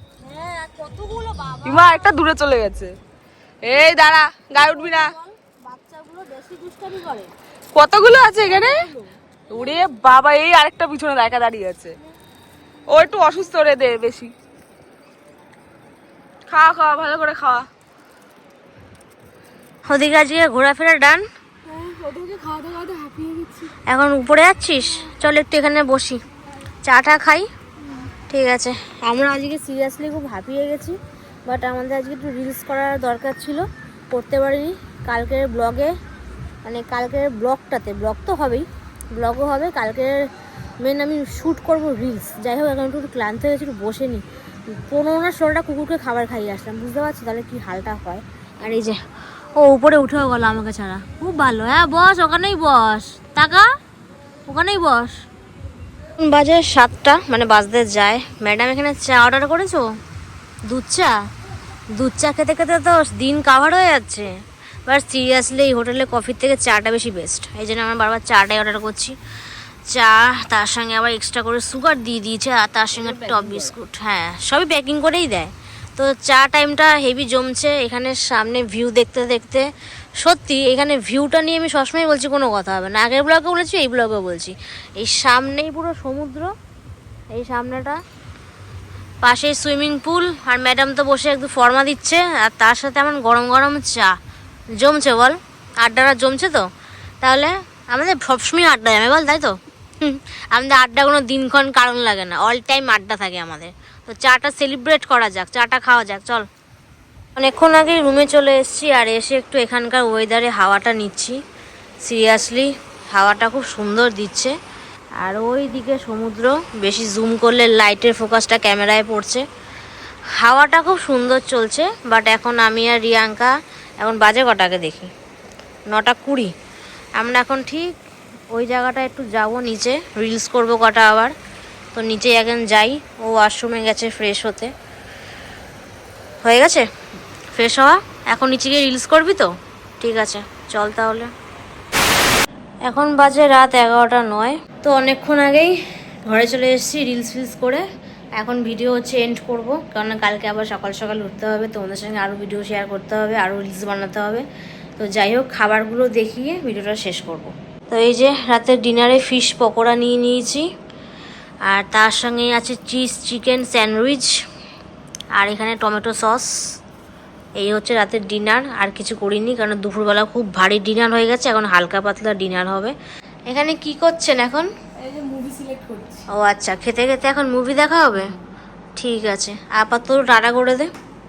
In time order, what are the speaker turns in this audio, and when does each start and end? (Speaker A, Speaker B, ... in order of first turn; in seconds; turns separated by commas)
Speaker A: 0.3-2.0, Speaker B: 1.6-2.9, Speaker B: 3.6-5.2, Speaker A: 4.8-7.3, Speaker B: 7.7-8.9, Speaker C: 8.4-8.7, Speaker B: 9.5-11.9, Speaker B: 12.9-14.3, Speaker B: 16.5-17.7, Speaker A: 19.9-21.2, Speaker C: 21.7-23.7, Speaker A: 23.9-26.2, Speaker A: 26.8-27.5, Speaker A: 28.3-36.0, Speaker A: 36.6-40.3, Speaker A: 40.8-49.0, Speaker A: 49.6-53.7, Speaker A: 54.5-55.2, Speaker A: 56.2-59.9, Speaker A: 60.7-61.2, Speaker A: 62.0-64.3, Speaker A: 64.9-69.2, Speaker A: 69.9-86.5, Speaker A: 87.3-88.0, Speaker A: 89.2-94.1, Speaker A: 94.8-96.7, Speaker A: 97.2-106.5, Speaker A: 107.4-111.4, Speaker A: 112.0-114.5, Speaker A: 115.2-119.4, Speaker A: 120.4-125.1, Speaker A: 125.9-126.5, Speaker A: 127.2-128.0, Speaker A: 128.5-131.3, Speaker A: 131.9-134.7, Speaker A: 136.4-136.9, Speaker A: 137.5-141.3, Speaker A: 142.9-145.7, Speaker A: 146.3-147.8, Speaker A: 148.4-154.4, Speaker A: 155.0-160.7, Speaker A: 161.7-164.3, Speaker A: 165.4-166.5, Speaker A: 167.6-172.9, Speaker A: 173.5-174.7, Speaker C: 175.0-176.3, Speaker A: 176.3-178.3, Speaker A: 179.0-180.9